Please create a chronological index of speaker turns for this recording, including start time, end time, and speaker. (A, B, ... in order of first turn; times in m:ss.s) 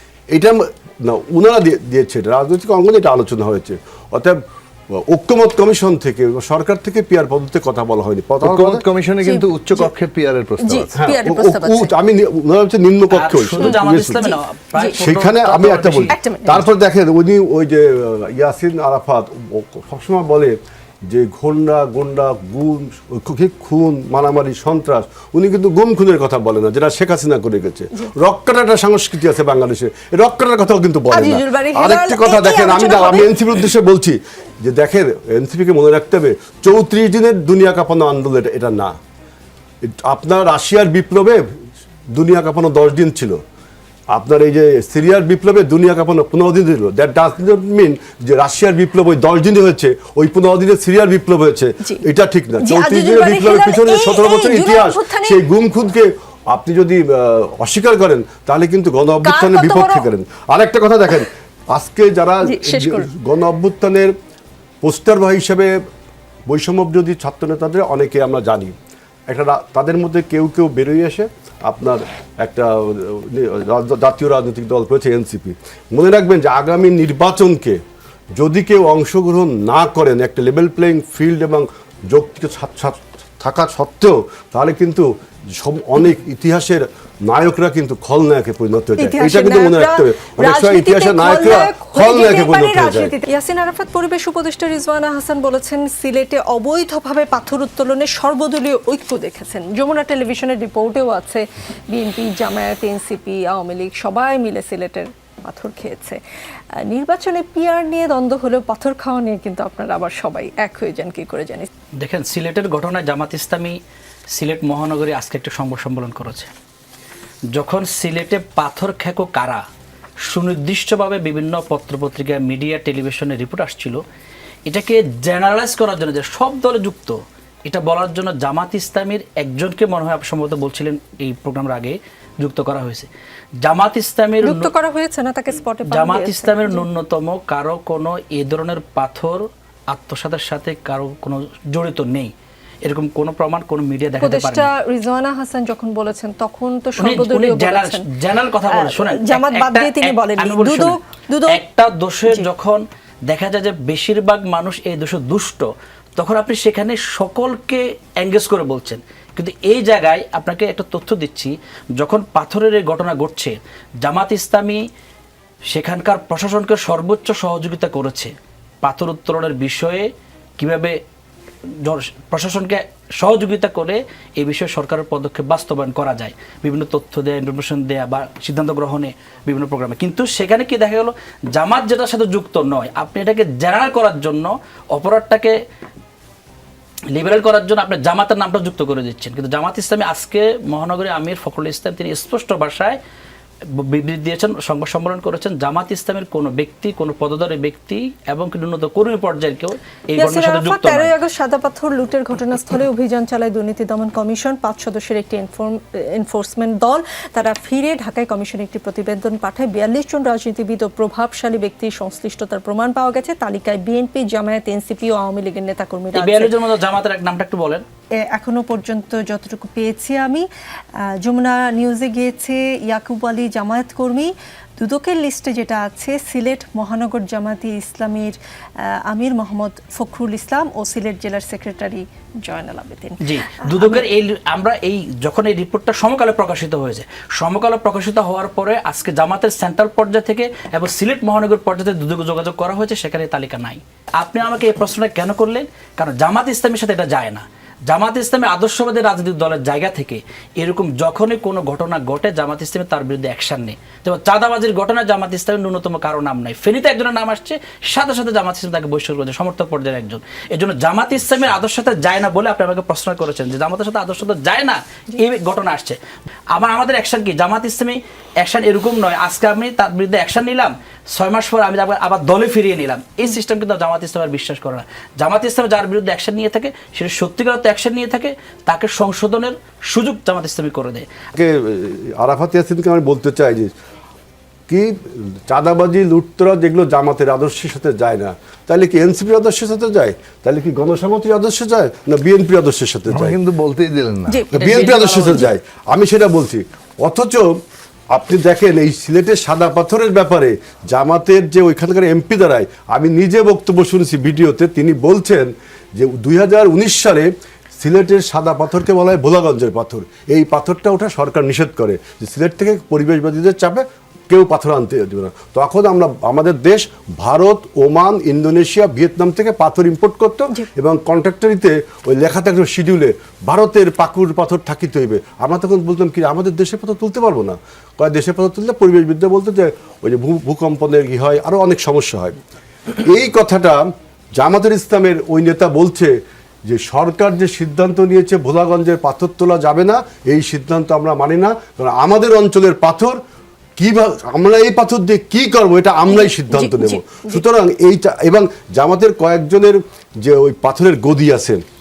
0:00.3-0:04.4 A
0:05.1-0:08.8 A
0:08.4-0:11.0 B
0:09.2-0:09.9 C
0:10.6-0:11.9 C
0:11.0-0:14.3 A
0:13.1-0:16.1 D
0:13.6-0:15.0 C
0:14.9-0:39.0 A
0:16.1-0:16.7 C
0:31.1-0:33.4 C
0:39.9-0:41.5 A
0:42.1-0:43.4 A
0:44.1-1:04.1 A
0:52.6-0:55.4 C
0:59.2-1:00.1 C
1:02.4-1:03.1 C
1:04.8-1:05.8 A
1:06.5-1:08.7 A
1:09.3-1:17.8 A
1:18.4-1:33.1 A
1:29.0-1:46.2 C
1:46.8-1:51.7 C
1:52.0-1:53.8 D
1:54.3-1:56.5 D
1:57.5-1:59.6 D
2:00.3-2:04.0 D
2:04.7-2:13.1 D
2:13.6-2:14.7 D
2:14.4-2:16.8 C
2:15.8-2:22.3 D
2:22.8-2:24.7 D
2:24.2-2:28.1 C
2:27.0-2:44.8 D
2:28.6-2:31.6 C
2:45.7-2:51.0 D
2:51.8-3:05.5 D
3:07.1-3:13.0 D
3:13.7-3:21.1 D
3:20.2-3:36.5 C
3:36.1-3:37.8 D
3:38.2-3:40.4 C
3:41.2-3:54.0 C
3:53.2-4:26.0 D
4:26.5-4:41.1 D
4:41.3-4:43.7 A
4:44.7-4:53.4 A
4:53.1-4:55.3 B
4:54.3-4:55.0 C
4:54.5-4:57.6 A
4:54.6-4:55.4 D
4:58.1-5:32.4 A
5:33.0-5:33.8 A
5:34.4-5:36.1 A
5:36.7-5:43.2 A
5:43.8-5:51.6 A
5:46.1-5:47.4 C